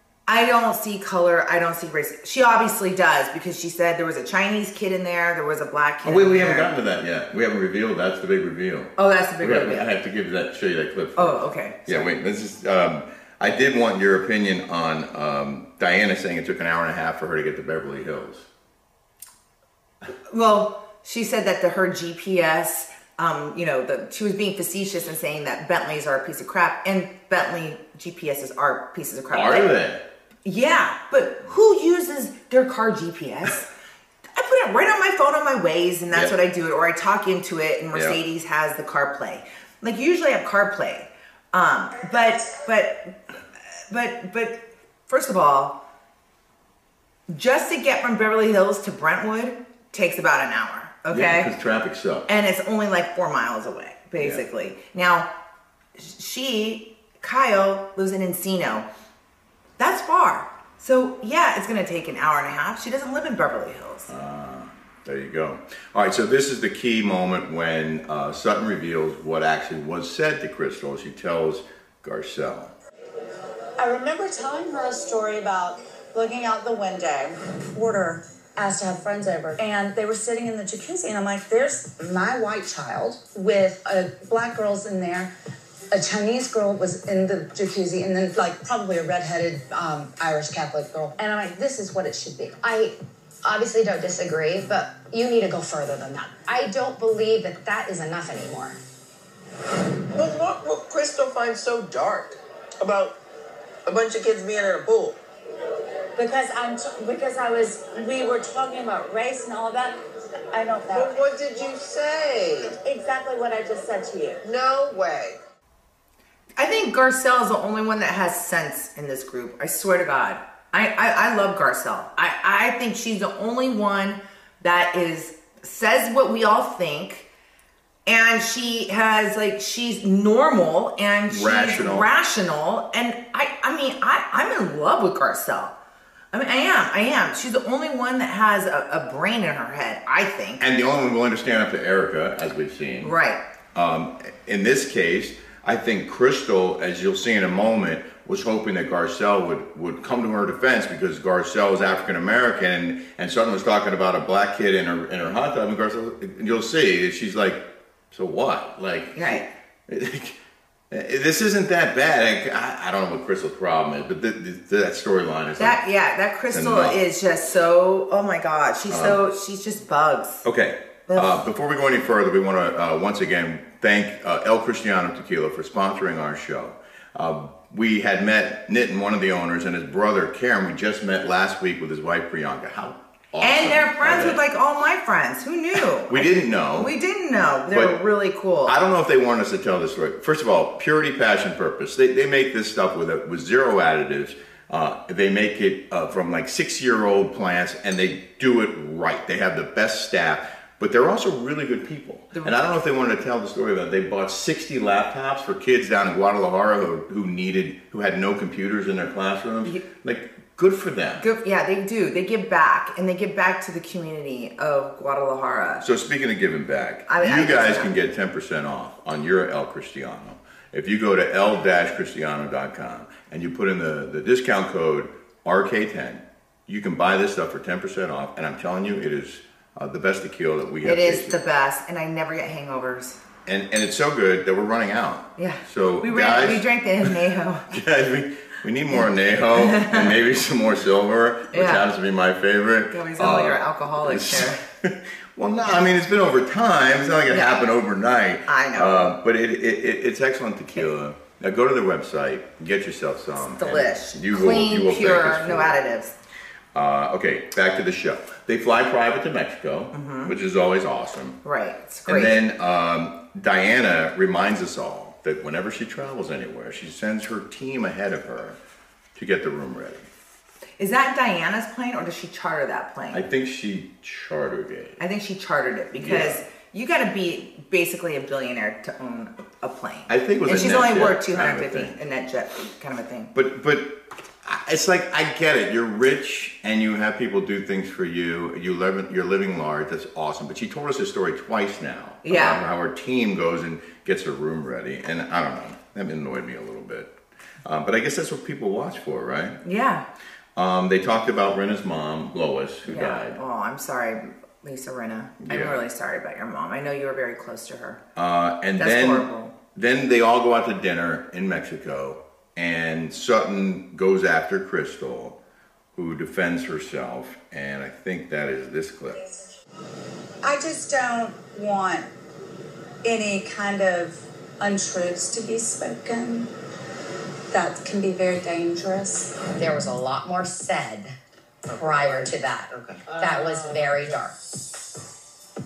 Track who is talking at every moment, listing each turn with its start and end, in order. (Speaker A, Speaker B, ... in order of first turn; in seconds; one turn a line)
Speaker A: 0.3-6.7
Speaker B: 6.0-18.5
Speaker A: 9.0-9.9
Speaker A: 11.2-12.1
Speaker A: 20.3-29.8
Speaker B: 29.3-30.0
Speaker A: 30.4-33.7
Speaker A: 34.3-43.2
Speaker B: 36.1-36.4
Speaker B: 37.9-38.2
Speaker A: 43.9-45.8
Speaker A: 47.3-51.5
Speaker B: 51.1-52.3
Speaker A: 52.3-55.3
Speaker B: 54.2-54.4
Speaker A: 56.0-58.9
Speaker A: 59.8-64.1
Speaker B: 64.1-72.7
Speaker C: 73.8-85.3
Speaker C: 85.9-92.6
Speaker D: 92.6-98.8
Speaker E: 100.1-103.1
Speaker E: 103.8-105.2
Speaker C: 106.2-110.0
Speaker C: 110.5-111.2
Speaker E: 110.9-112.7
Speaker C: 112.9-114.3
Speaker E: 114.4-115.4
Speaker A: 116.6-127.3
Speaker A: 128.1-135.7
Speaker B: 131.3-132.1
Speaker A: 136.3-140.6
Speaker B: 140.6-143.1
Speaker A: 143.0-143.4
Speaker B: 143.7-160.4
Speaker A: 159.1-159.5
Speaker B: 160.9-165.8
Speaker A: 165.6-170.4
Speaker B: 166.5-167.0
Speaker B: 168.9-169.2
Speaker B: 170.4-184.4
Speaker A: 171.1-171.4
Speaker A: 183.4-188.7
Speaker B: 186.1-186.9
Speaker B: 187.7-188.0
Speaker B: 188.7-211.2
Speaker A: 211.2-215.8
Speaker B: 215.8-231.4
Speaker A: 217.1-217.9
Speaker A: 230.8-233.2
Speaker B: 233.4-255.8
Speaker A: 235.4-237.7
Speaker A: 239.6-240.1
Speaker A: 241.5-241.8
Speaker A: 242.9-244.6
Speaker A: 247.3-247.6
Speaker A: 248.5-249.1
Speaker A: 253.4-256.1
Speaker B: 256.7-261.4
Speaker A: 259.9-260.3
Speaker A: 261.4-262.4
Speaker B: 262.1-268.6
Speaker B: 269.1-270.1
Speaker A: 270.8-273.2
Speaker B: 273.1-275.0
Speaker A: 275.0-283.3
Speaker B: 275.9-276.4
Speaker B: 280.1-282.0
Speaker B: 283.3-297.1
Speaker A: 292.2-292.6
Speaker B: 297.6-299.6
Speaker A: 299.6-300.1
Speaker B: 300.6-303.4
Speaker A: 302.9-308.0
Speaker B: 305.4-305.8
Speaker B: 308.1-315.4
Speaker A: 308.8-309.5
Speaker B: 315.9-319.2
Speaker C: 320.4-322.1
Speaker C: 323.0-326.5
Speaker C: 327.5-329.3
Speaker D: 329.5-331.1
Speaker E: 331.7-333.0
Speaker D: 331.7-334.3